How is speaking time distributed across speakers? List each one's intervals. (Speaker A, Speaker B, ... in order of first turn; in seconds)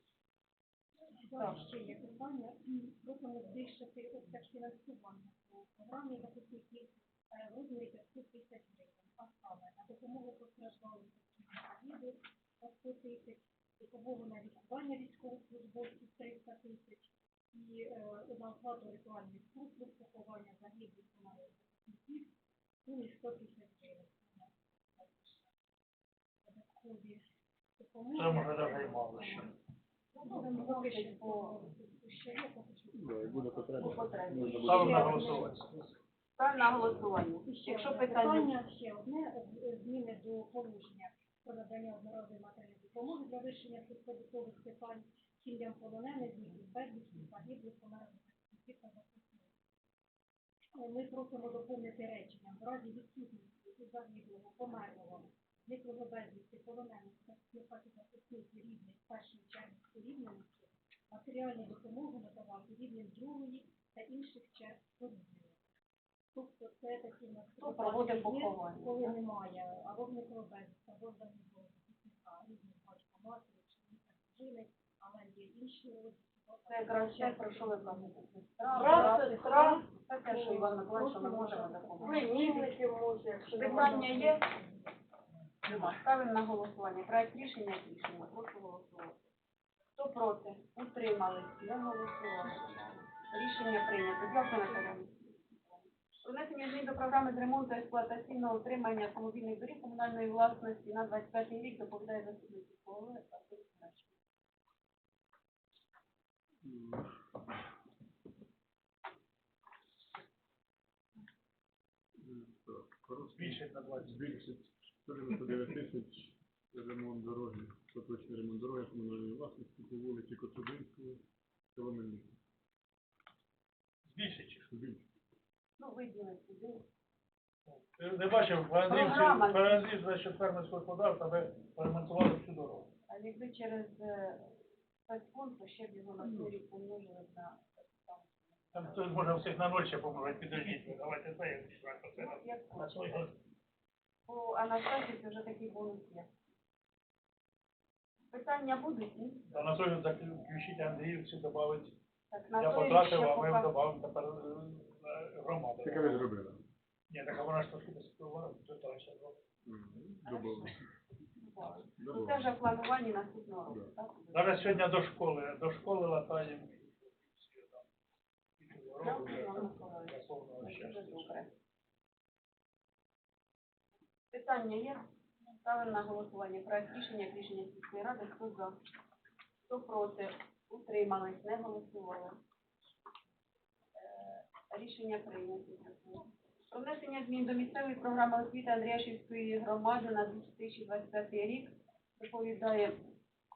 Speaker A: 1.2-22.3, 22.9-25.5, 26.4-27.2, 27.8-29.5, 30.2-33.9, 34.8-35.2, 37.5-49.5, 50.8-65.6, 66.3-78.1, 78.8-79.3, 80.9-82.4
Speaker B: 1.4-1.6, 30.1-31.6, 33.8-35.4, 36.4-38.6, 67.6-69.2, 76.7-82.7, 83.5-84.5, 85.7-89.2, 90.0-95.2, 96.2-104.2, 125.8-126.8, 128.9-129.8, 133.1-134.5, 135.1-139.1, 142.2-143.3, 144.3-146.3, 148.3-149.4, 152.3-153.7, 160.2-160.7, 161.4-164.9, 169.0-171.5, 174.3-175.0, 175.6-178.8, 179.7-182.4, 184.0-193.0
Speaker C: 28.1-29.5, 34.6-35.9, 85.7-86.0, 113.3-114.4, 124.1-124.7, 127.7-132.9, 138.7-143.3, 149.5-151.9, 152.6-156.3, 157.1-159.4, 164.3-167.9, 168.6-171.4
Speaker D: 32.9-35.8, 106.6-107.1, 112.2-121.2, 121.8-122.3, 124.7-125.0, 155.8-156.6, 159.7-160.9, 162.0-162.5
Speaker E: 78.7-80.4, 81.0-81.3, 82.0-84.4